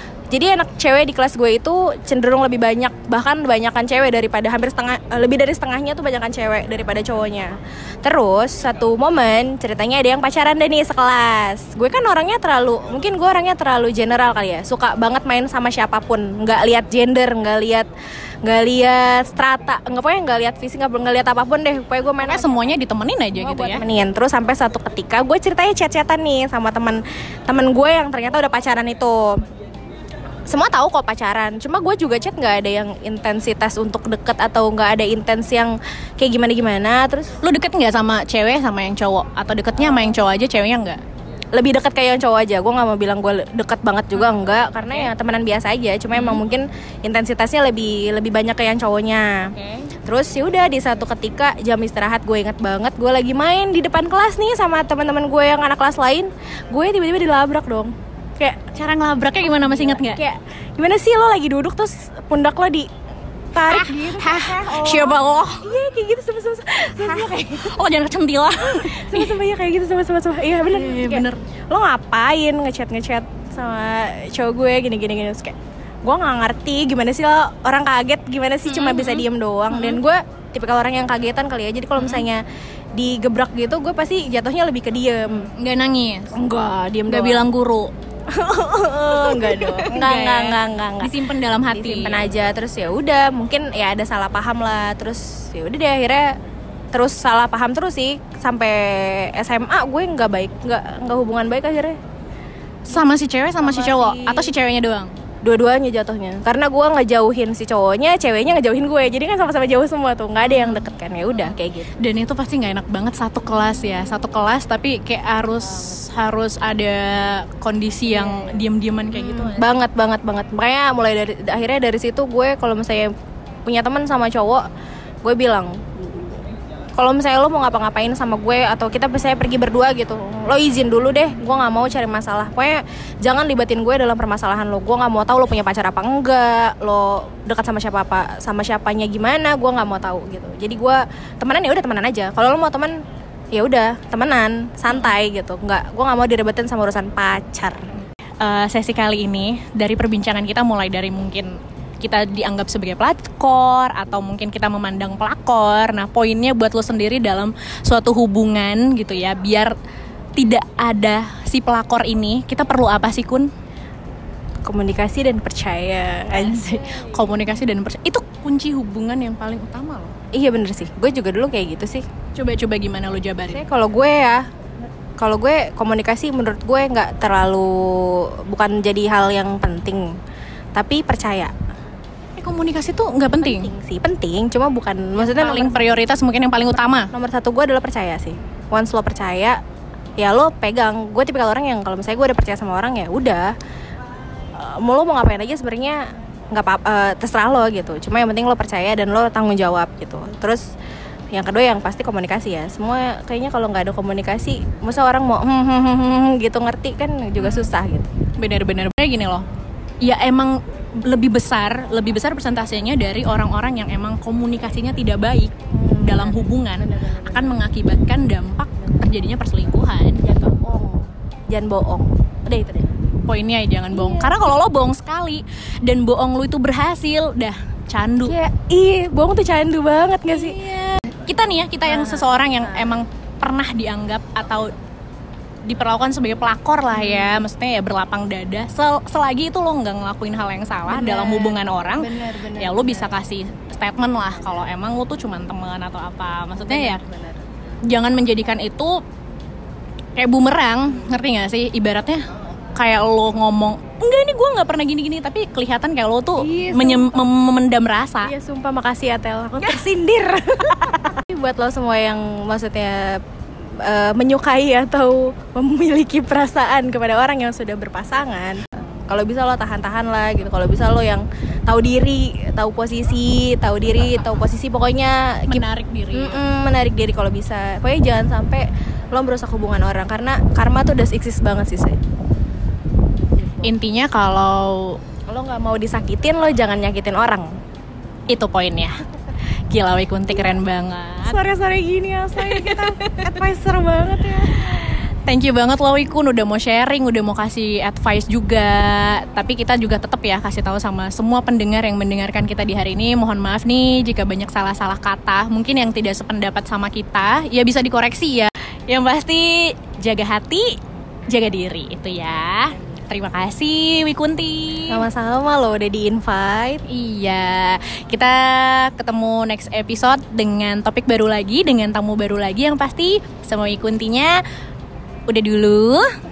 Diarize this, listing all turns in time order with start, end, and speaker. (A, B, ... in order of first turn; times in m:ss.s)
0:00.3-0:17.9 A
0:18.4-0:22.7 A
0:22.2-0:23.8 B
0:23.3-0:29.4 A
0:30.5-0:37.3 A
0:37.4-0:41.0 B
0:41.5-0:49.5 A
0:46.1-0:46.4 B
0:49.6-0:49.9 B
0:50.0-0:58.6 A
0:58.5-1:00.2 B
0:59.6-1:02.9 A
1:03.5-1:07.8 A
1:03.7-1:05.7 B
1:07.0-1:09.4 B
1:08.6-1:22.4 A
1:10.6-1:11.4 B
1:18.7-1:20.0 B
1:22.0-1:22.3 B
1:23.0-1:25.5 A
1:25.5-1:26.3 B
1:26.3-1:27.4 A
1:27.1-1:27.9 B
1:28.3-1:31.1 A
1:29.1-1:32.2 B
1:31.7-1:36.3 A
1:36.9-1:42.0 A
1:42.9-1:45.1 B
1:43.6-1:44.5 A
1:45.4-1:51.9 A
1:50.4-1:50.9 B
1:51.4-1:59.7 B
1:58.1-1:58.6 A
1:59.1-2:03.1 A
2:03.6-2:04.6 A
2:05.2-2:06.3 A
2:07.0-2:23.0 A
2:23.5-2:27.9 A
2:28.4-2:39.7 B
2:40.4-2:43.5 B
2:44.6-2:47.3 A
2:46.3-2:50.1 B
2:50.3-2:52.0 A
2:52.3-2:53.6 B
2:53.5-2:54.4 A
2:55.2-3:00.0 A
3:00.8-3:01.5 A
3:02.4-3:03.7 B
3:03.4-3:06.1 A
3:05.2-3:07.1 B
3:07.1-3:09.6 A
3:10.2-3:13.5 A
3:14.6-3:20.6 A
3:21.3-3:28.1 A
3:27.4-3:27.7 B
3:28.4-3:29.4 B
3:30.0-3:40.2 B
3:35.7-3:37.6 A
3:40.2-3:43.0 A
3:43.3-3:48.4 B
3:43.9-3:44.4 A
3:48.2-3:50.6 A
3:50.3-3:54.7 B
3:51.8-3:53.0 A
3:55.6-4:07.0 B
3:56.9-3:57.4 A
4:00.9-4:03.1 A
4:06.5-4:07.4 A
4:07.9-4:09.0 B
4:10.2-4:12.2 B
4:12.7-4:18.3 B
4:16.4-4:17.1 A
4:18.2-4:23.2 A
4:23.8-4:35.6 A
4:35.5-4:36.4 B
4:36.1-4:42.0 A
4:43.4-4:43.7 A
4:43.6-4:45.0 B
4:45.3-4:47.5 A
4:48.3-4:49.0 B
4:49.7-4:51.4 B
4:51.2-4:55.0 A
4:52.4-4:53.2 B
4:54.8-5:10.8 B
5:11.3-5:15.0 B
5:14.9-5:16.8 A
5:16.9-5:24.4 B
5:25.3-5:26.1 B